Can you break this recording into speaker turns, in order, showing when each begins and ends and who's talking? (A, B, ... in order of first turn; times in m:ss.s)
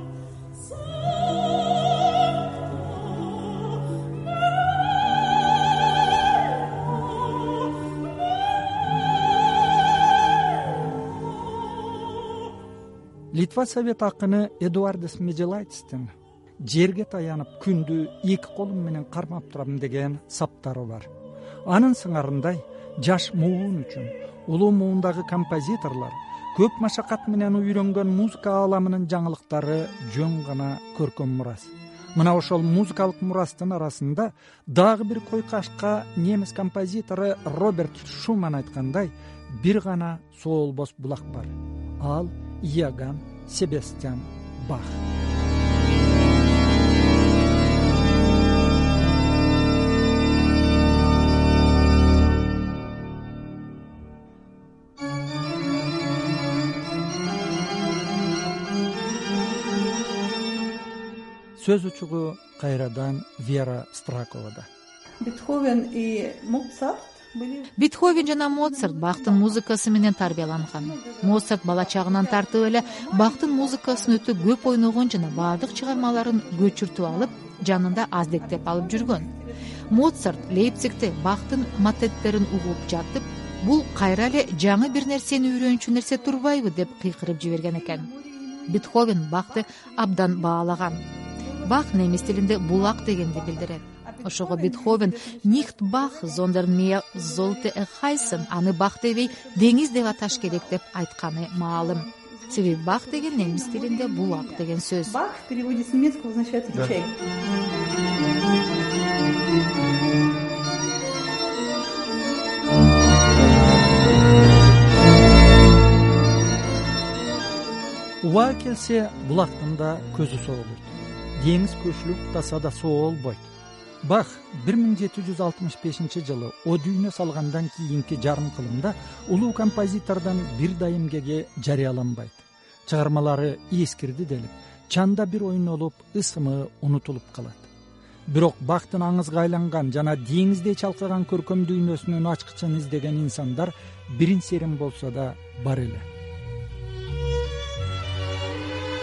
0:13.3-0:21.1 A
0:21.6-0:45.0 A
1:01.6-1:04.7 A
1:05.2-1:22.9 B
1:07.8-1:19.3 C
1:19.9-1:28.1 C
1:24.0-1:25.4 B
1:26.0-1:38.6 B
1:28.7-1:31.0 C
1:31.6-1:45.2 C
1:39.2-1:40.8 B
1:41.5-1:47.2 B
1:58.2-2:03.5 A
2:04.0-2:17.7 A
2:18.3-2:26.0 A